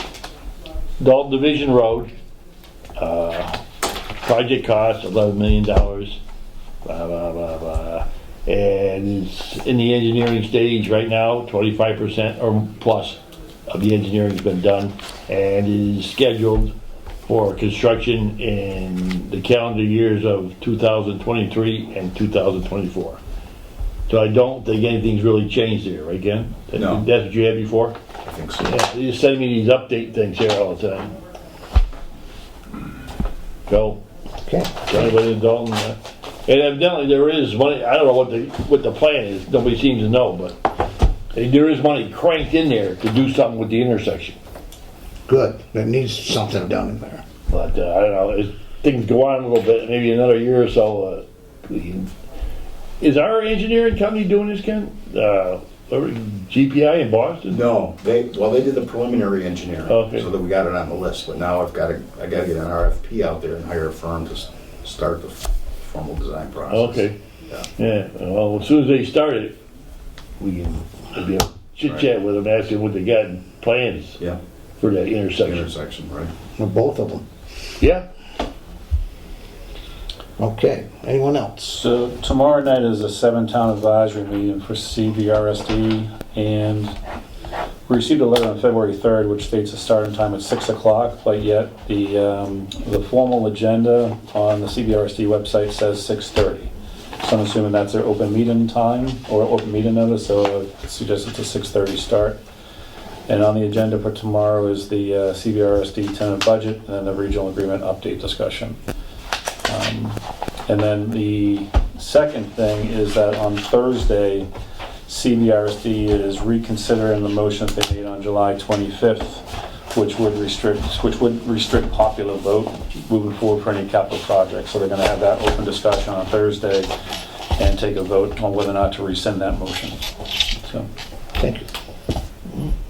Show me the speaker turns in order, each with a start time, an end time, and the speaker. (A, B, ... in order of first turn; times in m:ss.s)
0:01.0-0:02.1 A
0:03.0-0:03.6 A
0:04.2-0:06.2 A
0:06.8-0:16.7 A
0:17.2-0:23.2 A
0:24.1-0:28.0 A
0:26.8-0:27.0 B
0:28.2-0:28.7 B
0:28.6-0:31.1 A
0:33.7-0:34.0 A
0:34.4-0:34.8 C
0:34.8-0:44.4 A
0:45.3-0:47.2 C
0:47.5-0:52.1 A
0:53.0-0:57.6 A
0:57.5-1:07.6 B
0:59.9-1:00.3 A
1:06.7-1:07.2 A
1:07.8-1:09.6 A
1:10.4-1:14.2 A
1:14.8-1:15.7 A
1:15.4-1:16.3 B
1:16.6-1:17.2 C
1:17.8-1:18.0 A
1:20.4-1:21.8 C
1:21.7-1:26.9 D
1:27.9-1:36.7 D
1:37.2-1:42.4 D
1:43.3-1:48.8 D
1:49.7-1:54.5 D
1:55.0-2:06.9 D
2:07.6-2:10.9 D
2:11.4-2:11.6 C